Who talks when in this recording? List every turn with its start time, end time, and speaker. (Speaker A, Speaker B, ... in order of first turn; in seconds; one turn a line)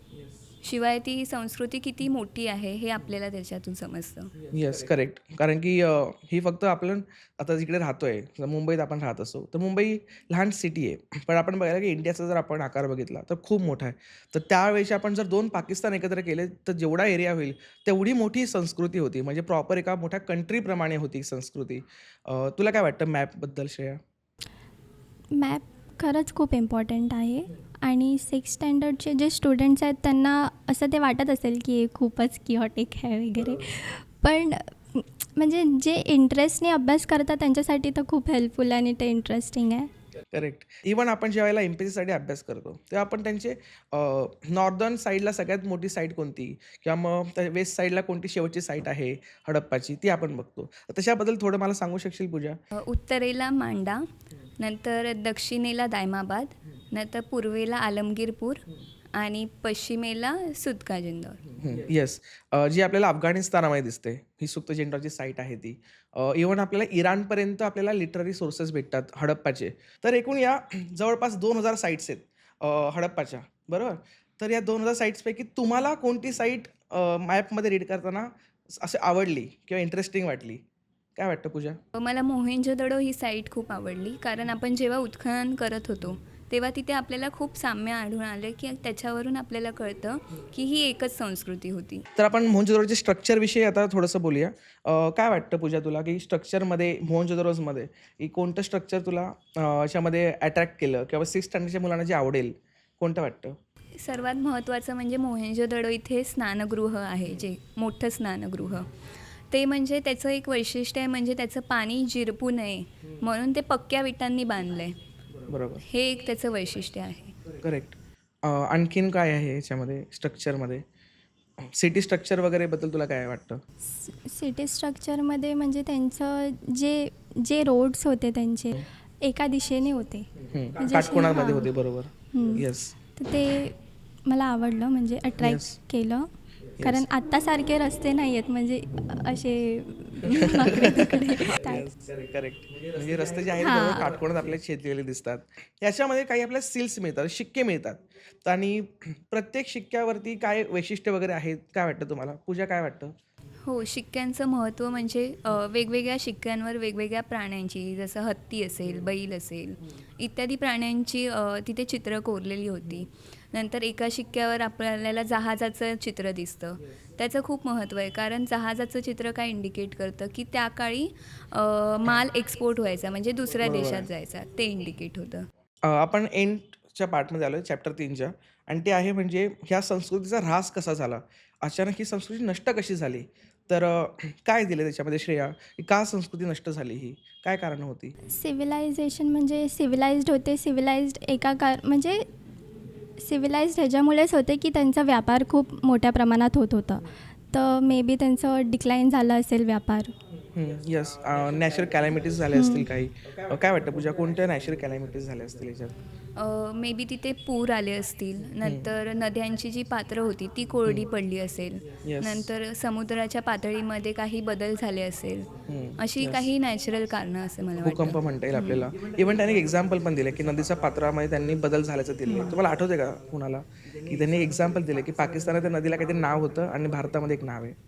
Speaker A: 0.6-4.4
Speaker B: 4.5-24.0
Speaker C: 25.4-39.9
Speaker B: 40.3-52.6
Speaker A: 52.8-54.0
Speaker A: 54.6-61.6
Speaker B: 61.6-80.6
Speaker B: 81.2-81.8
Speaker A: 81.9-92.1
Speaker B: 92.2-103.5
Speaker A: 104.0-115.0
Speaker B: 115.5-115.8
Speaker A: 115.8-117.4
Speaker B: 117.6-120.8
Speaker B: 121.6-123.6
Speaker C: 123.8-131.7
Speaker B: 130.5-132.9
Speaker C: 132.3-141.9
Speaker B: 135.4-135.8
Speaker B: 136.8-137.0
Speaker B: 140.3-153.2
Speaker C: 143.6-144.1
Speaker A: 153.6-175.5
Speaker B: 173.6-174.1
Speaker B: 175.8-188.2
Speaker C: 188.3-192.2
Speaker C: 193.2-200.1
Speaker B: 200.5-205.9
Speaker C: 202.5-202.9
Speaker A: 206.4-215.5
Speaker B: 208.6-208.9
Speaker B: 212.0-212.4
Speaker B: 215.7-216.5
Speaker A: 216.0-218.8
Speaker B: 217.8-227.8